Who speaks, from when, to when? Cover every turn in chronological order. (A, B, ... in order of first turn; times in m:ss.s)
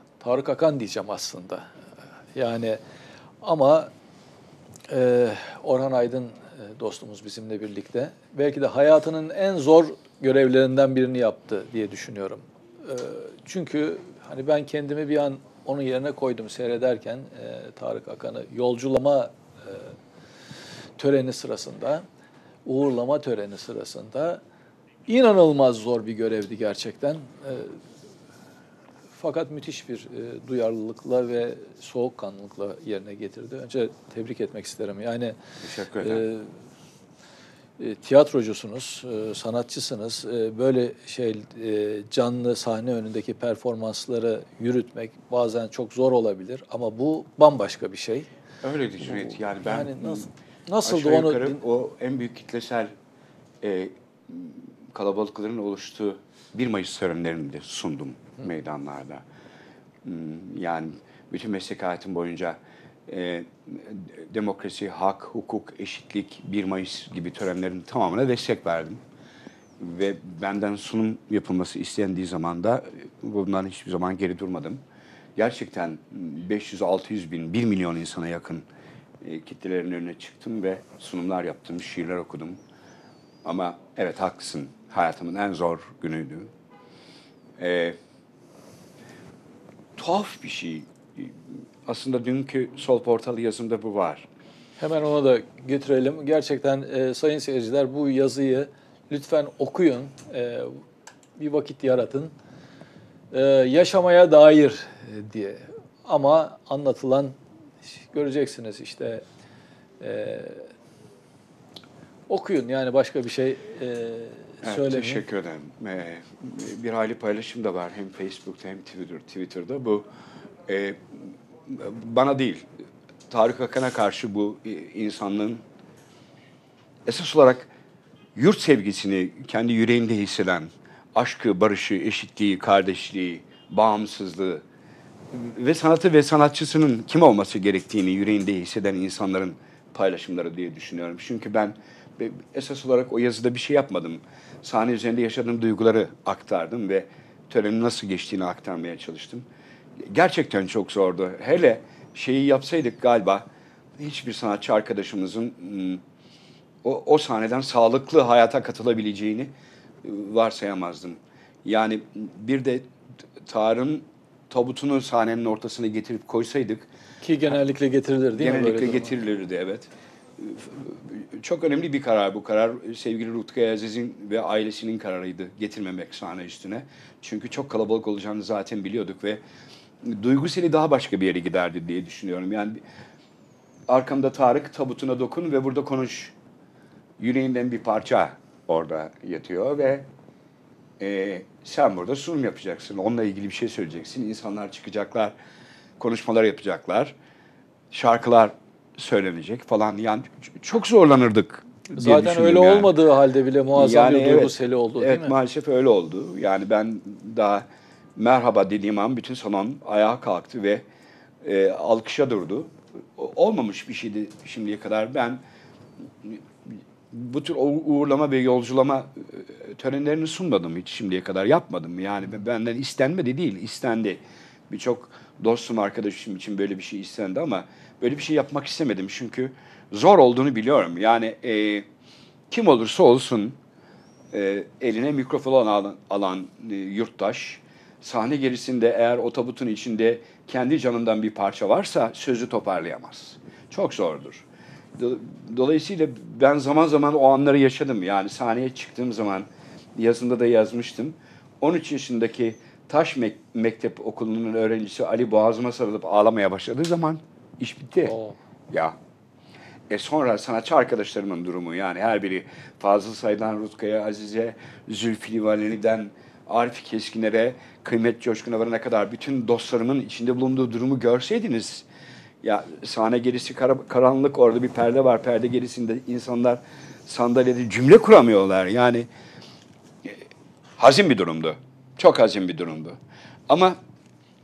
0:00.2-0:01.7 A
0:02.3-0:02.8 A
0:03.4-0:03.9 A
0:04.9-0:19.9 A
0:21.0-0:22.0 A
0:22.6-0:24.4 A
0:25.1-0:27.8 A
0:29.2-0:35.4 A
0:35.6-0:36.2 B
0:36.0-0:36.5 A
0:37.8-0:48.3 A
0:48.6-0:50.3 B
0:49.0-0:51.6 A
0:50.8-0:52.9 B
0:53.6-0:59.2 B
1:00.0-1:09.0 B
1:09.8-1:14.8 B
1:15.4-1:18.6 B
1:19.2-1:22.6 B
1:23.4-1:26.5 B
1:27.6-1:28.0 B
1:30.0-1:34.3 B
1:34.8-1:40.8 A
1:41.4-1:42.3 A
1:43.3-1:49.2 A
1:50.0-1:50.7 A
1:52.3-1:55.2 A
1:54.6-2:00.1 B
2:00.6-2:02.7 B
2:03.3-2:05.6 B
2:07.0-2:07.7 B
2:08.3-2:14.6 B
2:15.3-2:29.5 B
2:30.0-2:36.0 B
2:36.8-2:39.5 B
2:40.0-2:42.9 B
2:43.4-2:46.9 B
2:47.2-2:49.1 A
2:48.4-2:59.4 B
3:00.0-3:02.8 B
3:03.9-3:06.4 B
3:07.2-3:10.1 B
3:11.0-3:15.3 B
3:16.0-3:17.2 B
3:17.9-3:22.9 B
3:22.0-3:25.3 A
3:23.7-3:27.6 B
3:28.2-3:30.8 B
3:31.4-3:35.4 B
3:36.2-3:51.8 B
3:52.5-3:53.6 B
3:54.3-4:18.1 B
4:18.0-4:18.4 A
4:18.7-4:19.0 B
4:19.9-4:31.9 B
4:32.4-4:39.1 B
4:40.8-4:43.0 B
4:43.5-4:43.8 B